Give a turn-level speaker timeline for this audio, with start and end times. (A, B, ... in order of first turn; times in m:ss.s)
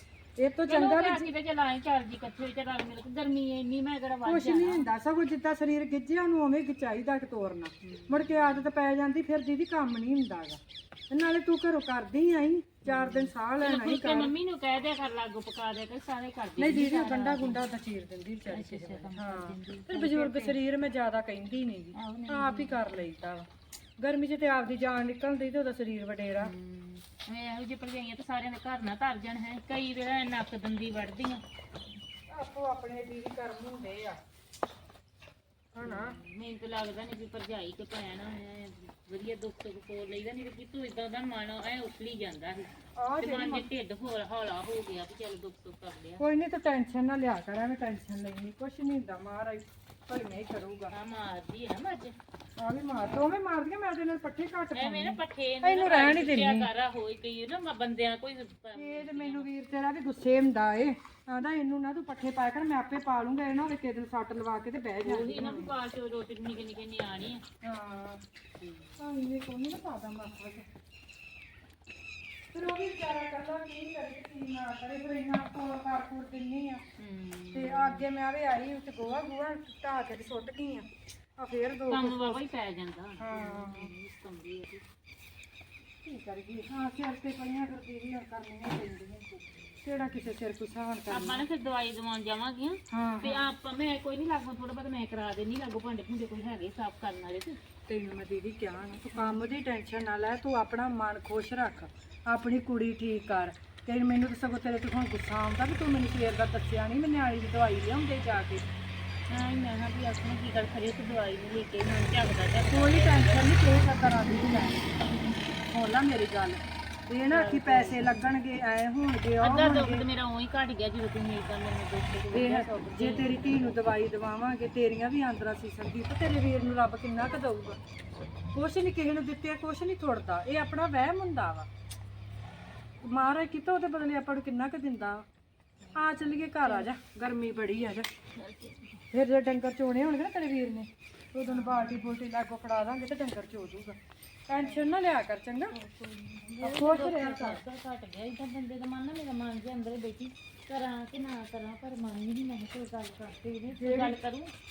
0:00.4-0:01.3 A
0:00.7-0:04.9 B
0:04.2-0:10.6 A
0:07.8-0:08.7 B
0:11.1-0:14.3 A
0:12.8-0:17.7 B
0:16.6-0:23.5 A
0:18.5-0:20.6 B
0:21.9-0:22.9 B
0:24.0-0:26.5 A
0:26.3-0:31.4 B
0:32.3-0:34.2 A
0:35.8-0:36.2 A
0:35.8-0:46.2 B
0:43.0-0:43.7 A
0:46.2-0:50.9 A
0:50.9-0:52.2 B
0:52.6-0:56.7 A
0:54.7-0:59.5 B
0:58.8-1:05.8 A
1:05.0-1:07.4 B
1:07.6-1:08.2 A
1:08.6-1:09.0 B
1:09.0-1:10.7 A
1:12.5-1:16.8 A
1:17.0-1:18.1 B
1:17.5-1:22.4 A
1:21.9-1:24.8 B
1:23.2-1:23.9 A
1:26.0-1:31.4 A
1:31.1-1:37.6 B
1:32.9-1:33.5 A
1:37.9-1:48.6 A
1:39.1-1:39.4 B
1:49.3-1:53.6 B
1:52.7-1:54.9 A
1:55.7-2:00.1 A
1:57.3-1:58.1 B
1:59.4-2:03.8 B
2:02.3-2:07.8 A
2:08.5-2:11.7 A
2:13.0-2:15.2 A
2:15.8-2:16.9 B
2:16.0-2:18.1 A
2:18.4-2:19.0 B
2:19.1-2:24.0 A
2:21.4-2:22.2 B
2:24.5-2:25.8 A
2:25.7-2:34.5 B
2:26.6-2:27.6 A
2:33.7-2:34.2 A